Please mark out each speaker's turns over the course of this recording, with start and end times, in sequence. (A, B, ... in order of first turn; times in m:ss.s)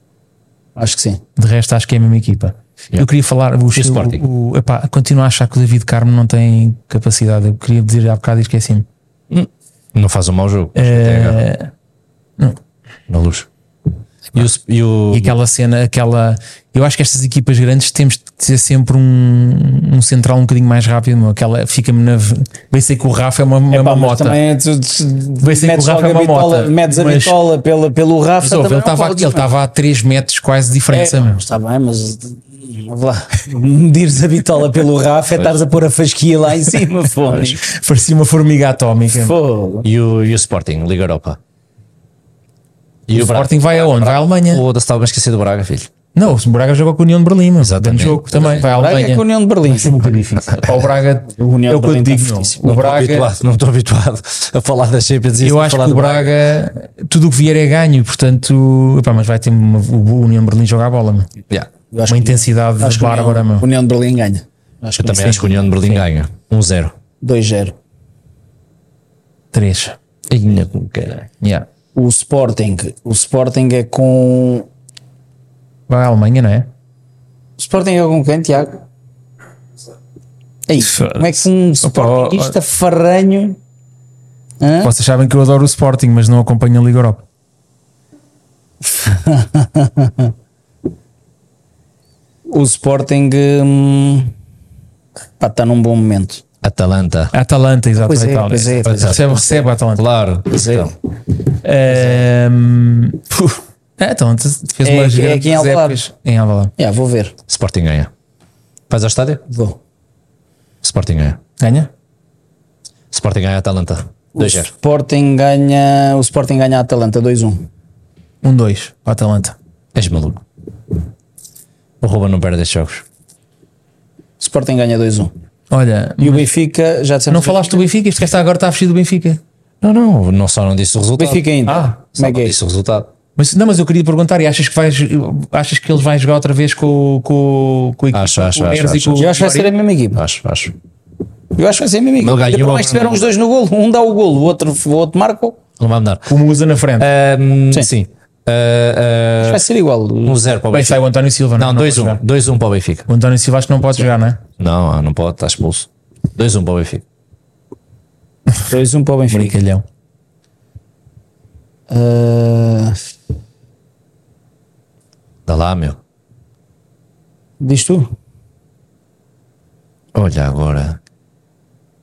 0:00.8-0:01.2 A
0:01.4-0:08.8 B
0:03.7-0:04.2 C
0:09.3-0:11.4 C
0:10.8-0:11.7 B
0:13.1-0:13.4 C
0:14.3-0:15.4 C
0:15.1-0:24.4 B
0:23.7-0:29.5 A
0:25.4-0:27.4 B
0:28.4-0:31.4 B
0:30.9-0:37.6 A
0:37.6-0:39.3 B
0:39.1-0:39.9 A
0:39.8-0:41.4 C
0:43.1-0:45.9 C
0:43.1-0:44.6 B
0:46.1-0:53.3 B
0:47.6-0:48.5 C
0:48.5-0:50.2 A
0:51.3-0:52.6 A
0:52.6-0:56.4 C
0:55.4-1:01.3 B
1:01.9-1:05.7 A
1:02.1-1:03.6 B
1:05.0-1:06.9 C
1:05.1-1:06.0 B
1:07.2-1:07.8 A
1:09.5-1:10.0 B
1:10.3-1:11.2 C
1:11.4-1:11.7 B
1:11.9-1:14.7 A
1:15.9-1:16.7 B
1:17.6-1:18.8 A
1:20.7-1:23.6 A
1:20.8-1:22.5 B
1:24.6-1:24.9 A
1:24.8-1:27.2 B
1:28.8-1:30.3 A
1:32.5-1:34.3 A
1:35.4-1:36.4 A
1:36.6-1:37.3 C
1:37.3-1:40.0 B
1:38.0-1:39.6 A
1:38.8-1:39.2 C
1:40.0-1:40.9 C
1:40.5-1:40.9 A
1:41.6-1:46.7 B
1:41.9-1:42.2 A
1:44.8-1:46.0 A
1:46.8-1:47.3 A
1:47.5-1:48.1 C
1:48.9-1:49.4 C
1:49.5-1:49.8 A
1:50.8-1:51.4 C
1:51.6-1:51.9 B
1:53.1-1:54.7 C
1:54.3-1:57.7 A
1:58.4-1:59.6 B
1:59.9-2:00.4 C
2:02.0-2:03.0 C
2:04.4-2:05.3 A
2:05.7-2:06.5 B
2:06.2-2:07.9 A
2:07.3-2:09.4 B
2:09.8-2:11.4 C
2:11.2-2:12.5 A
2:11.7-2:11.9 B
2:12.2-2:13.1 C
2:13.4-2:19.7 B
2:18.1-2:19.2 C
2:19.1-2:20.2 A
2:20.1-2:20.7 C
2:21.6-2:25.6 A
2:22.2-2:23.3 C
2:25.8-2:26.3 C
2:26.3-2:27.1 B
2:27.0-2:29.6 C
2:29.4-2:30.4 A
2:30.2-2:31.0 C
2:30.7-2:32.2 B
2:31.6-2:33.1 C
2:33.1-2:34.4 B
2:34.6-2:37.0 C
2:38.7-2:39.6 A
2:39.3-2:39.8 B
2:41.9-2:43.0 A
2:45.5-2:46.0 C
2:47.6-2:48.1 A
2:50.1-2:51.0 C